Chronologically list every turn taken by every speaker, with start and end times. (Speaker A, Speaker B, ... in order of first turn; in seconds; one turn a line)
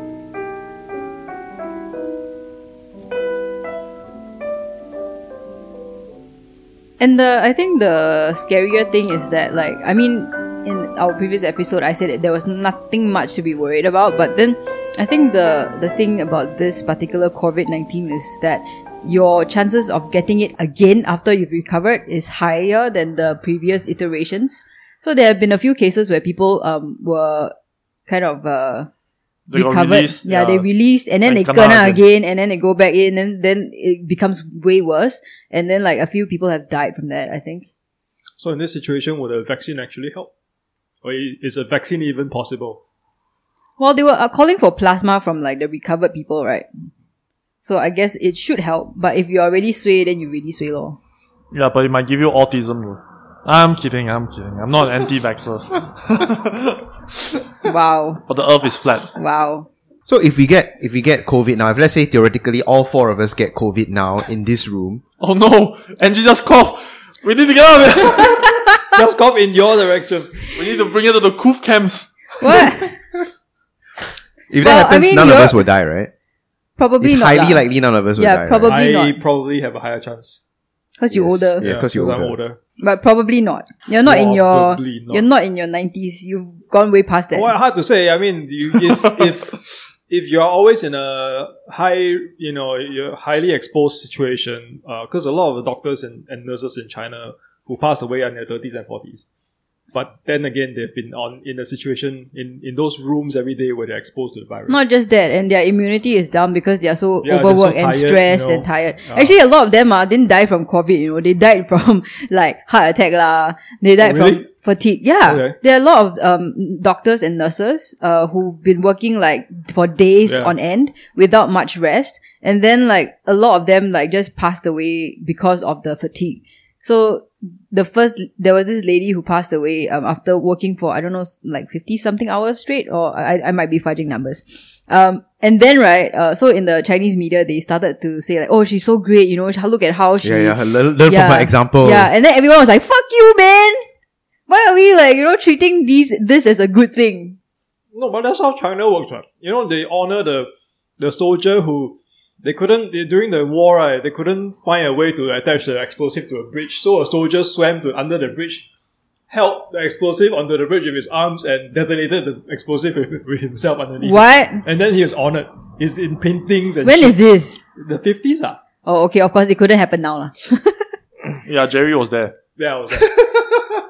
Speaker A: 7.0-27.5
Speaker A: 28.1-28.9
Speaker B: 29.5-30.6
Speaker A: 29.5-37.7
Speaker B: 31.2-32.0
Speaker C: 38.4-40.3
Speaker C: 41.0-42.8
Speaker A: 43.8-46.7
Speaker A: 47.6-51.0
Speaker B: 51.5-56.8
Speaker A: 57.6-58.2
Speaker B: 58.3-59.1
Speaker A: 59.1-59.7
Speaker D: 60.1-65.0
Speaker B: 65.2-68.6
Speaker C: 68.9-70.5
Speaker B: 70.5-72.7
Speaker A: 72.4-72.9
Speaker D: 74.5-76.1
Speaker A: 74.6-75.6
Speaker A: 76.8-77.6
Speaker D: 77.0-78.8
Speaker A: 78.2-79.2
Speaker C: 78.7-80.4
Speaker A: 81.0-81.6
Speaker D: 81.1-82.4
Speaker C: 81.6-82.6
Speaker A: 82.8-87.5
Speaker C: 84.0-85.3
Speaker C: 87.3-99.3
Speaker C: 99.9-104.8
Speaker A: 104.7-143.9
Speaker C: 107.2-109.3
Speaker C: 114.0-114.4
Speaker C: 115.3-115.6
Speaker C: 120.3-120.5
Speaker D: 140.2-142.1
Speaker A: 144.5-147.4
Speaker C: 147.9-158.7
Speaker C: 159.3-167.2
Speaker A: 164.0-164.6
Speaker A: 166.8-167.6
Speaker C: 167.8-168.6
Speaker A: 168.9-170.9
Speaker B: 171.4-172.3
Speaker C: 172.6-173.2